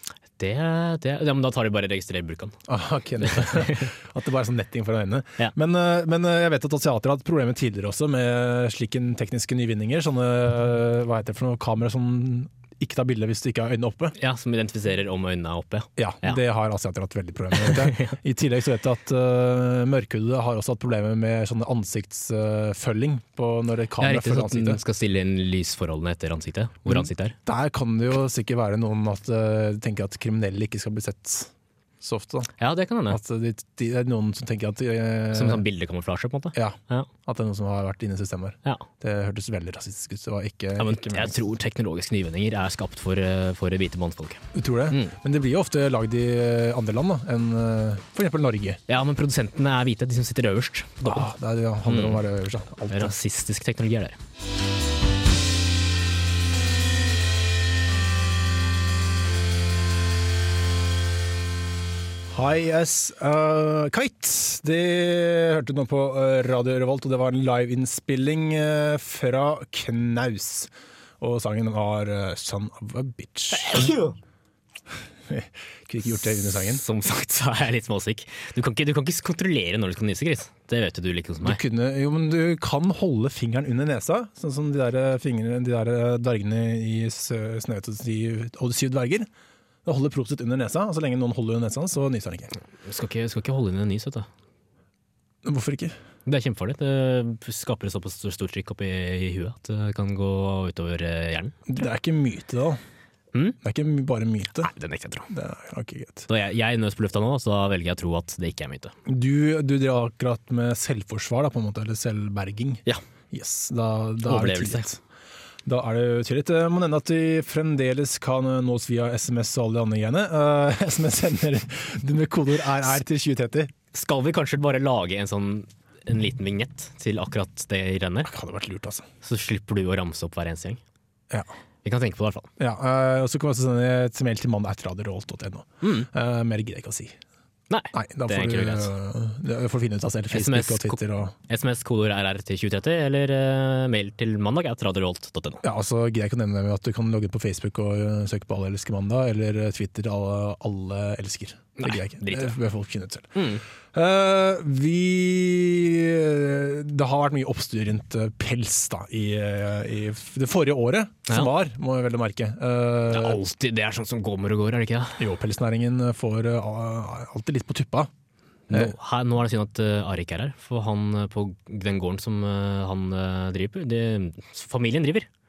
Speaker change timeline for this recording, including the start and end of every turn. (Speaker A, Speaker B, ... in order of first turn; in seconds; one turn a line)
Speaker A: 0.4-2.6
Speaker B: 2.7-14.2
Speaker A: 3.2-3.9
Speaker A: 14.2-16.4
Speaker B: 16.0-24.8
Speaker A: 17.6-18.2
Speaker A: 24.0-27.4
Speaker B: 26.9-32.5
Speaker A: 32.6-33.2
Speaker B: 33.1-35.6
Speaker A: 35.3-37.1
Speaker B: 36.5-41.4
Speaker A: 40.8-45.1
Speaker B: 44.5-48.8
Speaker A: 48.9-51.3
Speaker B: 51.0-53.1
Speaker A: 51.9-52.2
Speaker A: 52.9-54.2
Speaker B: 62.3-73.9
Speaker A: 73.5-74.2
Speaker B: 75.3-76.8
Speaker A: 76.5-81.6
Speaker B: 81.4-89.3
Speaker B: 89.8-92.5
Speaker A: 92.8-94.3
Speaker B: 95.5-96.0
Speaker A: 96.3-101.5
Speaker B: 101.7-102.8
Speaker A: 103.3-103.6
Speaker B: 103.6-104.7
Speaker A: 104.6-105.3
Speaker B: 105.3-106.3
Speaker A: 106.3-108.9
Speaker B: 109.1-115.0
Speaker A: 114.2-114.9
Speaker B: 115.7-123.7
Speaker A: 123.9-128.3
Speaker B: 128.2-129.1
Speaker A: 129.2-130.8
Speaker A: 131.8-132.5
Speaker B: 132.6-137.2
Speaker A: 135.8-136.1
Speaker A: 137.7-138.9
Speaker B: 137.9-141.3
Speaker A: 140.3-145.6
Speaker B: 145.6-153.4
Speaker A: 151.8-152.6
Speaker A: 153.3-153.6
Speaker B: 153.9-163.4
Speaker A: 163.1-165.2
Speaker B: 165.2-168.1
Speaker A: 168.7-175.3